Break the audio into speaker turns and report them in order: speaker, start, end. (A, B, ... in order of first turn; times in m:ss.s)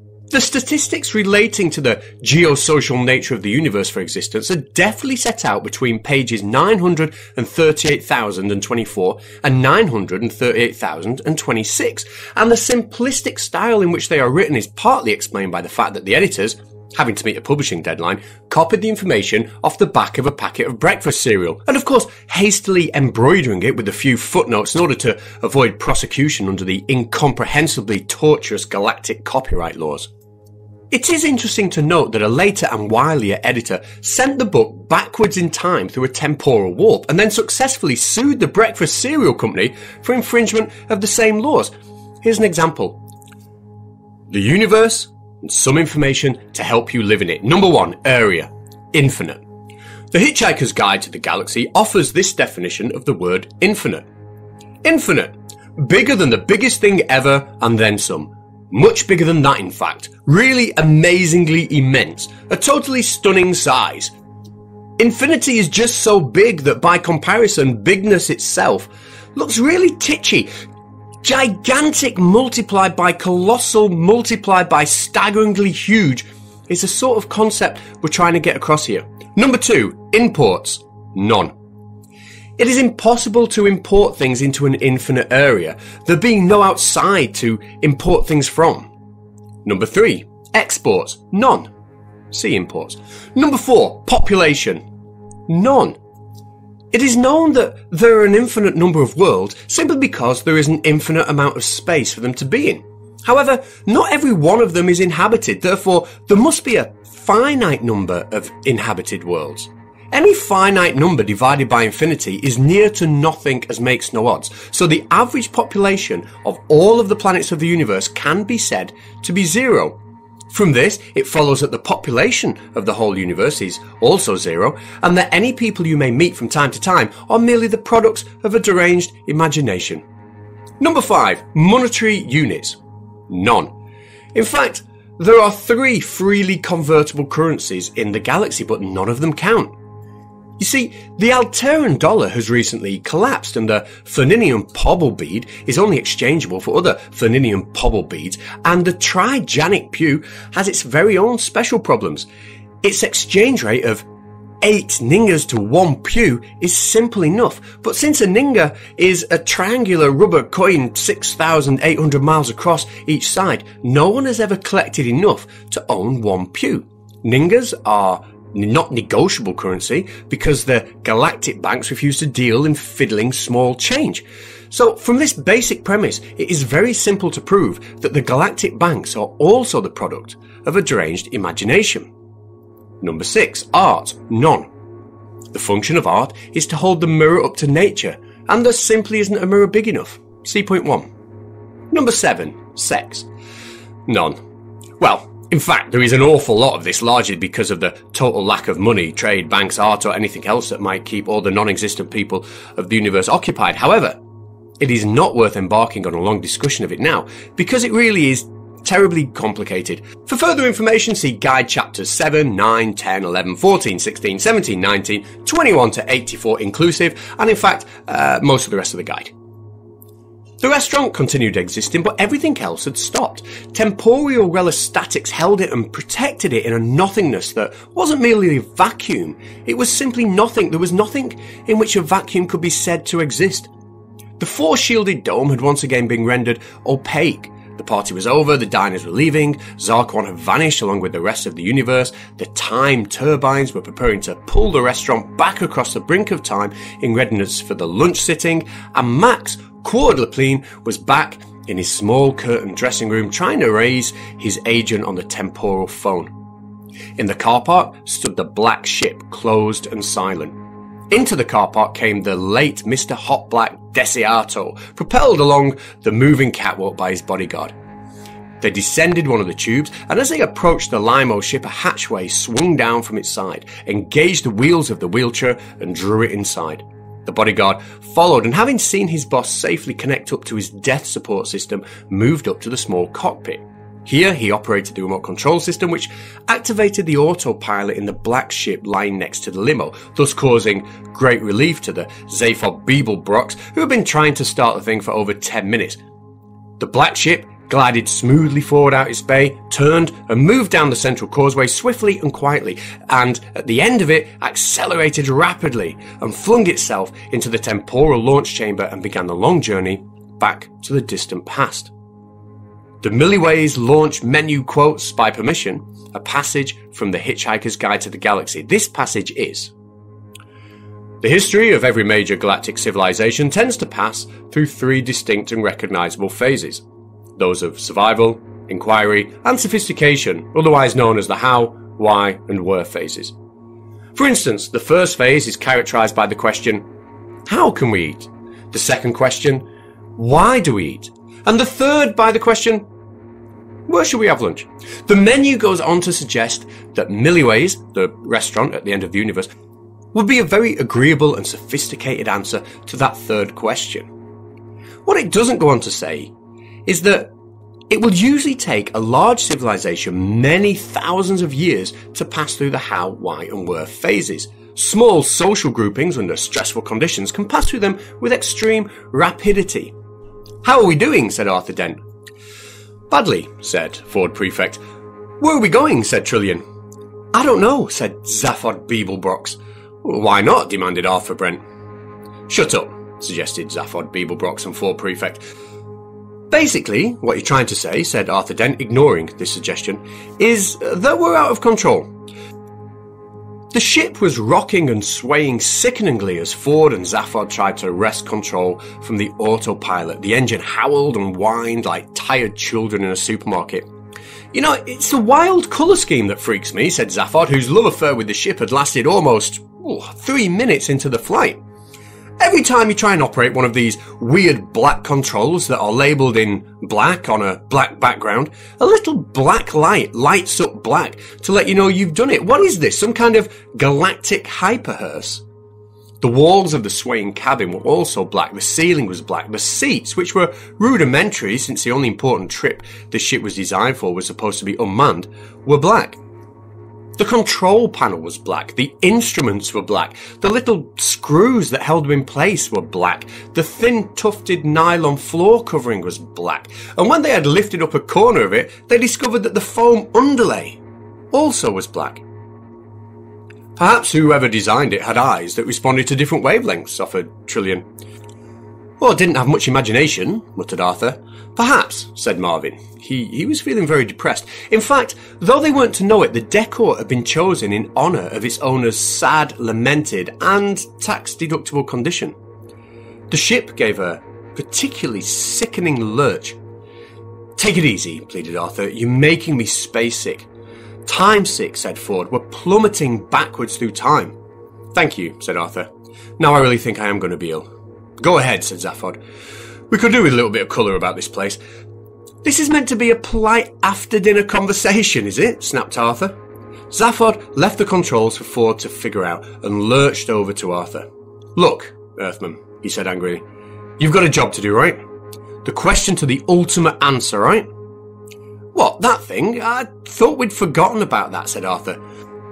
0:00.3-0:30.1 A
0:30.9-0:41.7 A
0:42.2-0:43.0 A
0:44.3-0:49.4 A
0:50.1-0:54.1 A
0:54.8-1:04.1 A
1:05.0-1:10.5 A
1:11.2-1:21.5 A
1:22.6-1:28.9 A
1:29.6-1:31.7 A
1:32.3-1:34.8 A
1:35.5-1:36.0 A
1:36.9-2:00.0 A
2:00.5-2:10.0 A
2:10.8-2:13.7 A
2:14.3-2:19.7 A
2:20.6-2:32.3 A
2:32.8-2:34.0 A
2:34.6-3:02.1 A
3:03.0-3:04.7 A
3:05.5-3:11.1 A
3:11.9-3:13.3 A
3:14.1-3:14.4 A
3:15.0-3:24.2 A
3:24.8-3:39.3 A
3:40.6-3:53.7 A
3:54.4-4:16.3 A
4:17.2-4:20.6 A
4:21.1-4:27.7 A
4:28.6-4:56.0 A
4:56.8-5:11.9 A
5:13.0-5:19.7 A
5:21.2-5:26.8 A
5:27.4-5:33.3 A
5:34.2-5:36.8 A
5:37.5-5:42.9 A
5:43.9-5:49.5 A
5:50.1-5:54.1 A
5:55.1-5:56.3 A
5:56.9-5:57.3 A
5:57.9-6:09.9 A
6:10.6-6:12.0 A
6:13.1-6:14.8 A
6:15.4-6:16.6 A
6:17.3-6:21.6 A
6:22.5-6:25.4 A
6:26.5-6:32.1 A
6:33.7-6:43.9 A
6:44.5-6:51.6 A
6:52.4-7:05.4 A
7:06.2-7:16.2 A
7:17.2-7:30.8 A
7:31.3-7:32.2 A
7:33.8-7:37.9 A
7:39.0-7:52.4 A
7:53.3-7:56.6 A
7:57.6-8:00.5 A
8:01.1-8:04.3 A
8:04.9-8:07.7 A
8:08.2-8:09.2 A
8:09.9-8:11.6 A
8:12.4-8:16.4 A
8:16.9-8:23.4 A
8:24.0-8:25.0 A
8:25.6-8:27.7 A
8:28.7-8:32.0 A